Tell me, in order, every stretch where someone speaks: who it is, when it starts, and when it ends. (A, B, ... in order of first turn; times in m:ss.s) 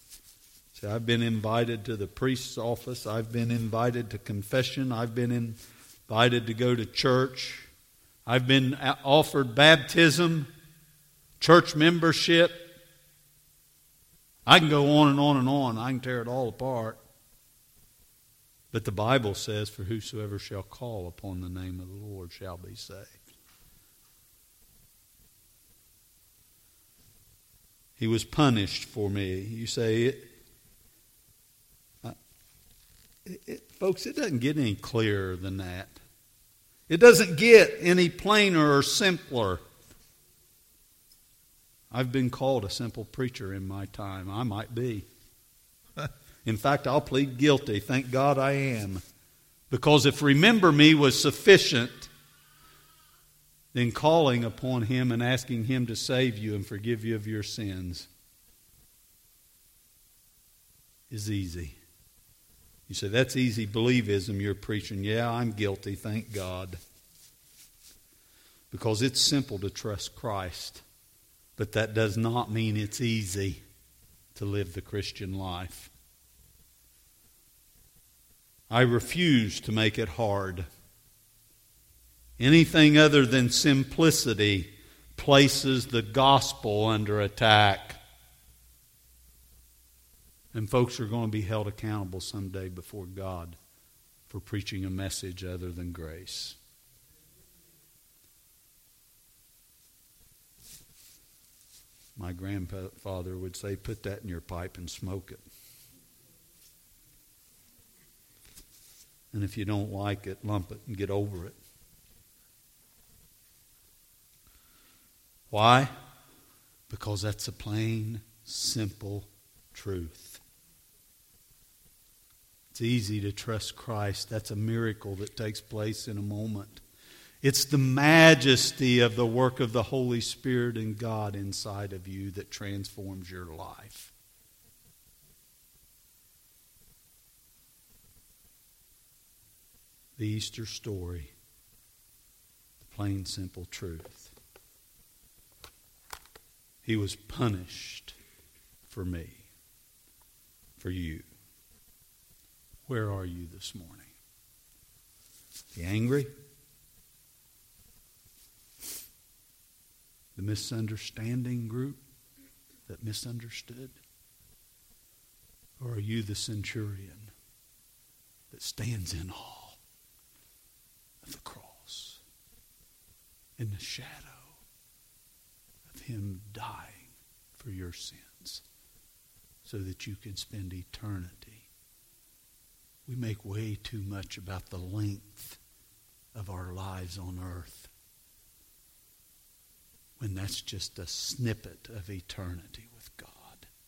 0:00.7-0:05.6 A
0:06.1-0:07.7 A
0:08.2-0:10.5 A
0:11.4-0:12.7 A
0:14.4-0:17.0 A
0:18.7-0:23.2 A
0:28.0-0:30.3 A
0:33.2-0:36.0 A
0:36.9-0:39.6 A
0:41.9-0:45.0 A
0:46.0-0:49.0 A
0:49.7-0:52.1 A
0:53.7-0:58.1 A
1:01.1-1:01.8 A
1:02.9-1:06.8 A
1:08.7-1:10.8 A
1:11.6-1:13.6 A
1:14.3-1:15.9 A
1:18.7-1:20.7 A
1:22.4-1:28.0 A
1:30.5-1:33.6 A
1:34.3-1:36.6 A
1:42.2-1:45.4 A
1:49.3-1:51.6 A
1:55.5-1:55.9 A
1:56.9-2:00.4 A
2:02.7-2:06.8 A
2:07.4-2:14.1 A
2:20.2-2:21.3 A
2:22.8-2:24.3 A
2:26.8-2:28.2 A
2:28.9-2:29.5 A
2:30.8-2:31.3 A
2:32.9-2:34.1 A
2:35.7-2:36.3 A
2:40.4-2:42.0 A
2:42.9-2:44.0 A
2:45.8-2:47.3 A
2:48.5-2:49.8 A
2:51.2-2:52.2 A
2:53.6-2:54.6 A
2:55.9-2:58.6 A
2:59.6-3:01.7 A
3:03.0-3:05.6 A
3:06.3-3:07.9 A
3:10.2-3:13.7 A